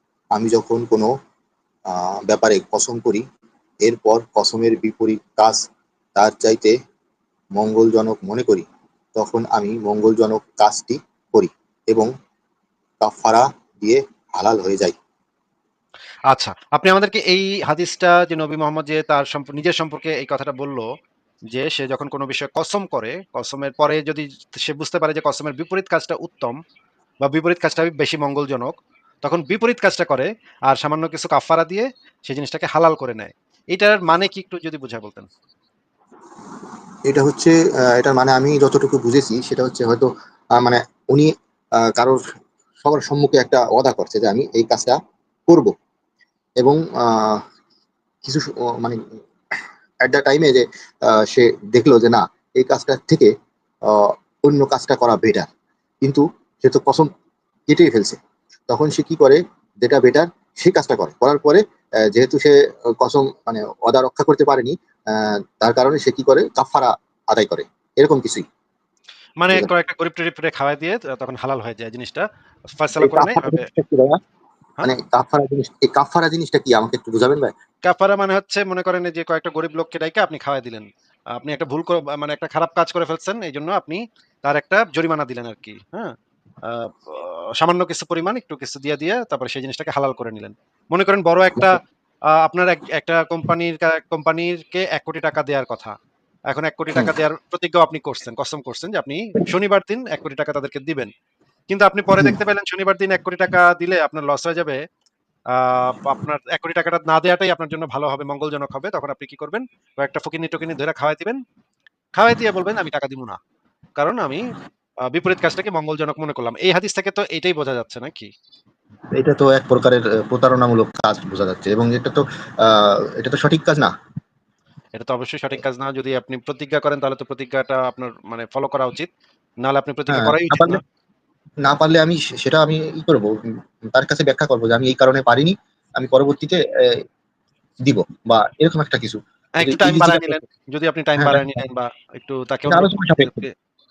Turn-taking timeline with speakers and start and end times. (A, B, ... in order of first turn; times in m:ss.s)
0:00.4-0:01.1 A
0:01.9-0:03.2 A
0:03.8-0:05.6 A
0:06.2-0:06.7 A
0:07.6-0:12.1 A
0:13.0-0:15.0 A
0:16.3-0:20.8 B
0:21.5-0:26.6 B
0:27.2-0:35.3 B
0:37.1-0:42.2 A
0:42.8-0:45.0 A
0:45.5-0:45.7 A
0:46.6-0:47.4 A
0:48.2-0:49.0 A
0:50.0-0:53.3 A
0:53.9-0:55.5 A
0:56.0-0:57.1 A
0:57.7-0:58.2 A
0:58.7-1:08.4 A
1:09.4-1:13.7 B
1:13.0-1:14.2 A
1:14.8-1:17.5 A
1:17.8-1:26.1 B
1:26.6-1:31.8 B
1:32.4-1:36.0 B
1:36.5-1:41.1 B
1:41.7-1:44.8 B
1:45.5-1:51.4 B
1:52.2-1:53.4 B
1:54.0-1:54.4 B
1:55.1-1:58.3 B
1:59.2-2:03.9 A
2:05.0-2:09.1 B
2:09.6-2:10.8 B
2:10.1-2:10.8 A
2:11.6-2:13.4 A
2:13.9-2:17.0 A
2:17.9-2:20.4 A
2:19.6-2:23.5 B
2:21.2-2:21.4 A
2:22.7-2:23.5 A